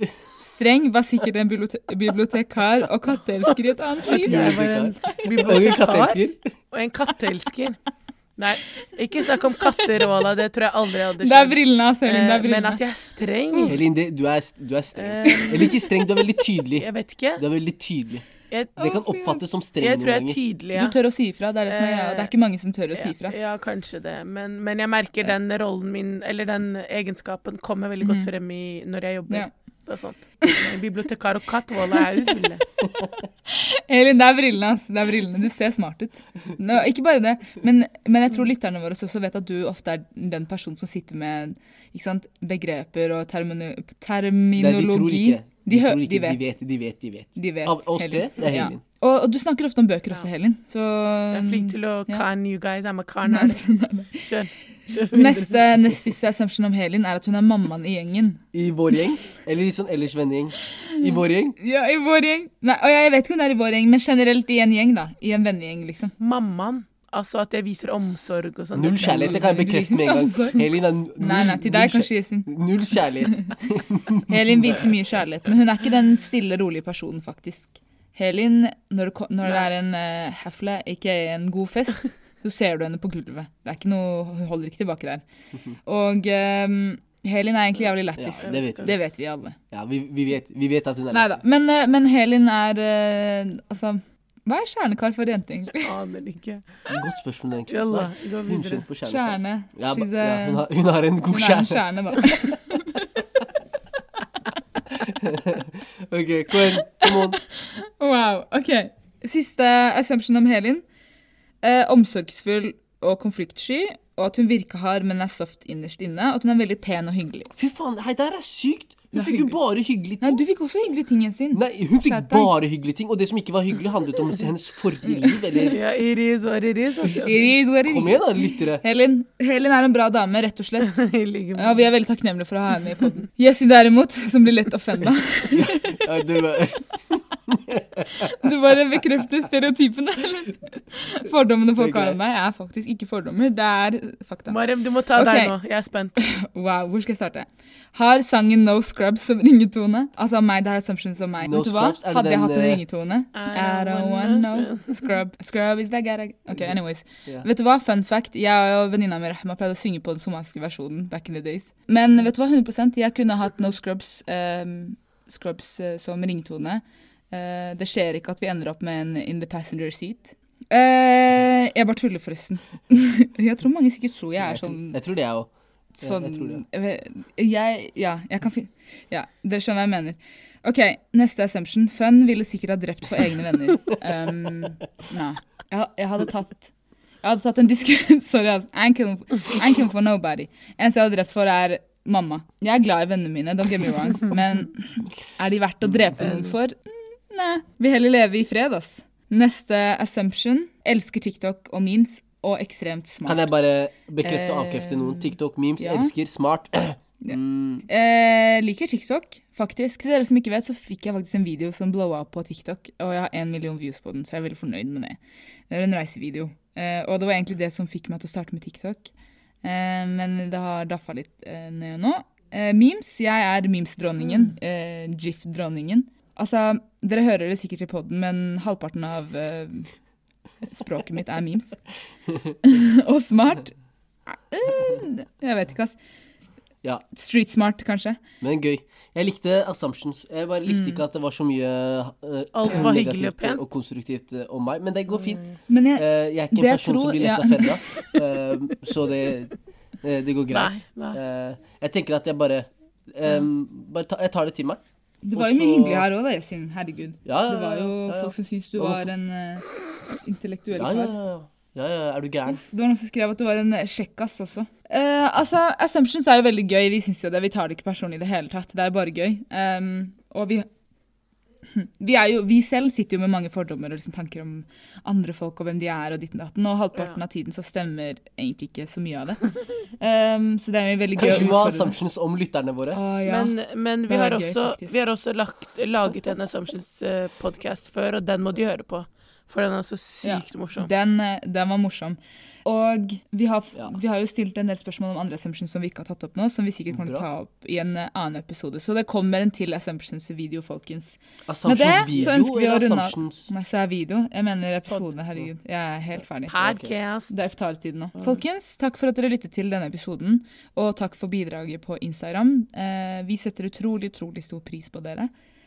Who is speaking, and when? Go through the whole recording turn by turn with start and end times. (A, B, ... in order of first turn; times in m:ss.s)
0:00.4-0:04.5 A
0:04.0-0:07.8 B
0:04.2-0:06.4 C
0:08.4-0:13.8 B
0:09.2-0:09.8 A
0:11.2-0:12.8 A
0:13.6-0:18.2 C
0:15.0-0:15.8 B
0:15.2-0:15.9 A
0:16.7-0:17.4 B
0:18.5-0:18.8 B
0:18.8-0:19.4 A
0:18.8-0:20.4 C
0:19.8-0:21.0 B
0:20.7-0:23.3 A
0:21.7-0:22.3 B
0:23.0-0:32.6 B
0:28.0-0:28.3 A
0:33.5-0:46.5 A
0:44.6-0:48.8 C
0:47.3-0:52.2 A
0:51.3-0:53.6 B
0:53.2-0:54.3 A
0:54.2-0:55.6 B
0:55.1-0:58.4 A
0:58.5-1:01.6 C
1:00.9-1:06.1 A
1:06.2-1:09.5 B
1:08.7-1:14.8 C
1:09.0-1:12.5 A
1:13.2-1:13.5 A
1:14.3-1:25.2 A
1:25.8-1:29.6 A
1:28.2-1:29.1 C
1:28.4-1:28.8 B
1:29.7-1:31.4 C
1:31.1-1:35.9 A
1:35.8-1:36.6 B
1:36.9-1:41.8 C
1:37.7-1:38.8 B
1:39.0-1:40.6 A
1:41.3-1:43.2 A
1:45.0-1:47.4 C
1:47.0-1:50.8 A
1:51.6-1:57.5 A
1:57.5-2:00.4 C
1:59.1-1:59.6 A
2:00.2-2:02.5 A
2:01.5-2:05.8 C
2:05.0-2:05.7 A
2:05.7-2:07.5 B
2:07.2-2:08.2 A
2:07.8-2:08.8 C
2:08.8-2:16.0 A
2:10.8-2:11.8 B
2:15.5-2:18.3 C
2:18.2-2:24.6 A
2:21.8-2:22.2 C
2:24.5-2:26.2 B
2:25.1-2:25.5 A
2:26.2-2:55.0 A
2:31.4-2:32.8 C
2:33.3-2:35.0 B
2:54.4-2:56.6 C
2:56.0-3:06.7 A
3:07.2-3:23.5 A
3:15.8-3:16.1 C
3:16.2-3:16.5 B
3:23.2-3:27.9 C
3:24.2-3:26.1 A
3:27.2-3:35.2 A
3:35.7-3:39.1 A
3:39.6-3:49.9 A
3:50.6-3:51.8 A
3:52.6-3:53.7 A
3:54.3-3:56.0 A
3:57.1-3:58.2 A
3:58.4-4:14.8 C
4:00.7-4:01.0 A
4:02.5-4:03.6 B
4:05.7-4:07.8 A
4:10.5-4:11.2 B
4:15.2-4:19.6 A
4:15.3-4:16.1 C
4:17.2-4:19.1 C
4:20.2-4:21.1 A
4:20.7-4:22.6 C
4:22.5-4:30.7 A
4:31.7-4:39.5 A
4:40.0-4:41.9 A
4:41.2-4:43.0 C
4:42.9-4:43.6 A
4:43.2-4:50.9 B
4:44.1-4:45.0 A
4:50.2-5:06.6 A
4:56.9-4:57.2 C
5:01.5-5:03.5 C
5:06.5-5:07.3 B
5:06.6-5:06.9 C
5:07.3-5:15.3 A